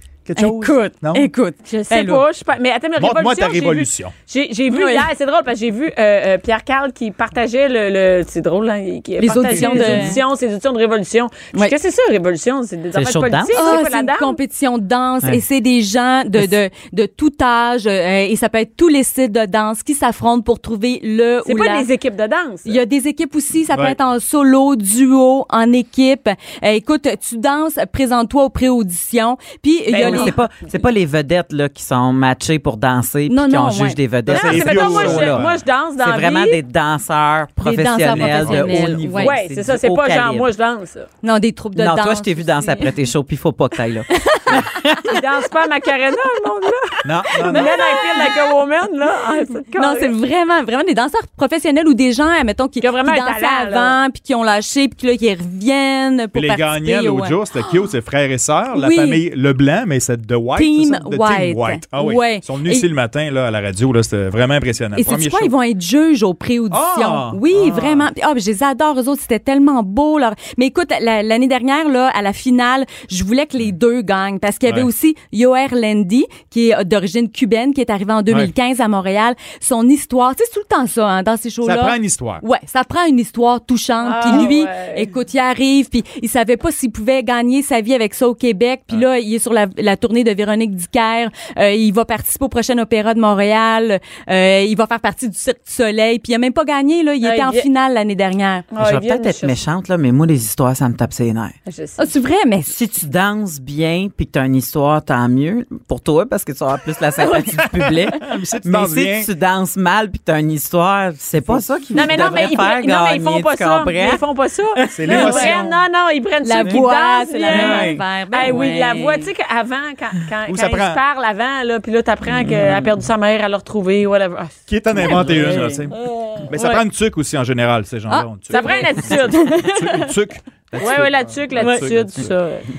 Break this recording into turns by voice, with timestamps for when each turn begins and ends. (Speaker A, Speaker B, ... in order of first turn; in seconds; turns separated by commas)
Speaker A: 0.3-1.3, Speaker B: 0.4-2.2, Speaker C: 1.7-14.4, Speaker A: 3.0-4.1, Speaker B: 4.7-5.1, Speaker B: 9.2-10.2, Speaker D: 12.9-13.8, Speaker B: 13.5-21.9, Speaker C: 21.4-22.8, Speaker B: 22.7-30.4, Speaker A: 23.7-24.0, Speaker C: 29.9-30.4, Speaker D: 30.0-35.5, Speaker B: 33.3-34.0, Speaker A: 34.3-35.6, Speaker C: 34.3-36.6, Speaker D: 36.0-40.5, Speaker B: 37.6-39.4, Speaker A: 38.1-38.9, Speaker C: 39.2-41.1, Speaker B: 41.2-42.9, Speaker D: 41.8-45.1, Speaker B: 44.1-44.6, Speaker C: 45.0-50.1, Speaker A: 47.0-47.8, Speaker B: 47.4-48.4, Speaker B: 49.8-57.4, Speaker C: 52.8-54.0, Speaker A: 56.3-65.5, Speaker B: 58.7-59.2, Speaker B: 60.6-62.9, Speaker B: 65.0-98.7, Speaker A: 66.7-68.1, Speaker A: 81.6-82.4, Speaker C: 84.0-85.1, Speaker C: 97.2-97.7, Speaker C: 98.7-99.6, Speaker D: 98.8-101.5, Speaker C: 101.7-102.0, Speaker B: 102.0-102.7, Speaker D: 102.7-114.2, Speaker A: 107.6-109.3, Speaker A: 111.4-112.3, Speaker C: 111.9-124.6, Speaker D: 114.8-115.6, Speaker A: 114.9-115.7, Speaker B: 115.1-115.5, Speaker B: 116.4-119.3, Speaker D: 117.5-118.0, Speaker A: 120.5-121.0, Speaker D: 122.3-122.9, Speaker A: 124.7-132.3, Speaker B: 125.0-125.9, Speaker C: 125.9-126.5, Speaker B: 128.1-130.1, Speaker C: 128.5-129.7, Speaker C: 130.8-132.6, Speaker B: 131.6-131.8